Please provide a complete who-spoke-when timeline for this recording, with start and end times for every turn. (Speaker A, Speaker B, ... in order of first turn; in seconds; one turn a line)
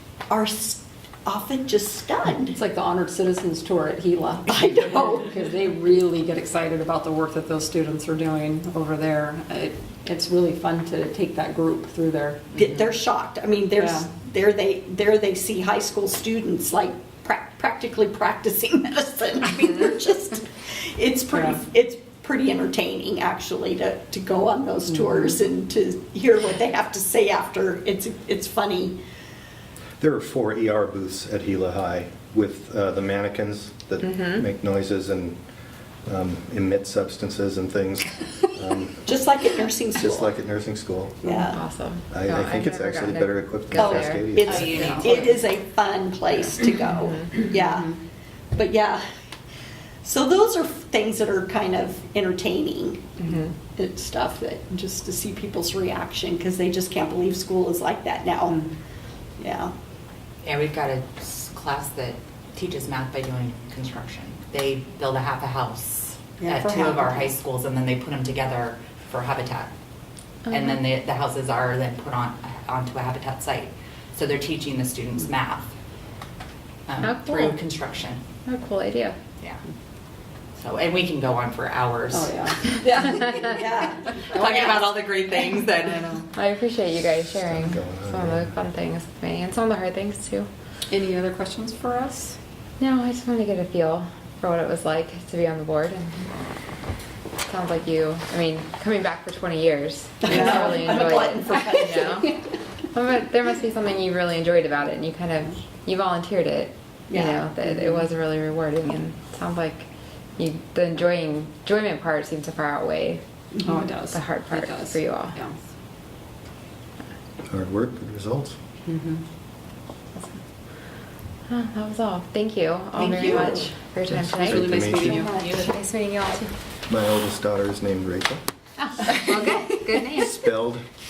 Speaker A: 0.3-2.6
Speaker B: 2.5-12.6
Speaker A: 12.6-29.0
Speaker B: 13.8-14.1
Speaker B: 21.3-21.6
Speaker B: 24.9-25.3
Speaker C: 30.0-35.4
Speaker D: 34.0-34.5
Speaker C: 36.1-39.1
Speaker A: 39.1-40.3
Speaker C: 40.0-41.2
Speaker A: 41.2-41.6
Speaker D: 41.3-45.3
Speaker C: 42.1-44.7
Speaker A: 43.8-48.0
Speaker E: 44.4-45.4
Speaker D: 47.0-47.3
Speaker A: 48.5-49.0
Speaker A: 50.0-53.2
Speaker D: 53.2-53.5
Speaker A: 53.7-58.6
Speaker A: 59.4-59.7
Speaker E: 60.4-69.7
Speaker A: 66.4-66.8
Speaker B: 66.7-67.3
Speaker D: 70.5-70.8
Speaker E: 70.5-75.7
Speaker E: 76.9-78.2
Speaker D: 77.0-77.6
Speaker D: 78.5-79.2
Speaker E: 80.6-82.8
Speaker B: 82.1-82.7
Speaker A: 82.7-85.0
Speaker E: 84.2-86.2
Speaker B: 85.8-86.2
Speaker D: 86.3-90.5
Speaker C: 87.4-88.5
Speaker B: 90.9-92.4
Speaker D: 92.8-96.2
Speaker D: 97.5-102.4
Speaker A: 100.2-102.3
Speaker B: 100.2-100.8
Speaker D: 102.9-109.9
Speaker A: 107.1-107.4
Speaker B: 107.6-108.1
Speaker D: 110.4-113.2
Speaker A: 113.5-113.8
Speaker B: 113.6-115.6
Speaker D: 114.1-115.4
Speaker C: 117.5-118.6
Speaker B: 118.9-119.2
Speaker D: 121.5-126.5
Speaker A: 123.0-123.7
Speaker B: 124.2-125.4
Speaker C: 124.3-125.3
Speaker E: 125.2-125.8
Speaker C: 126.9-128.4
Speaker D: 128.8-130.4
Speaker C: 130.1-130.8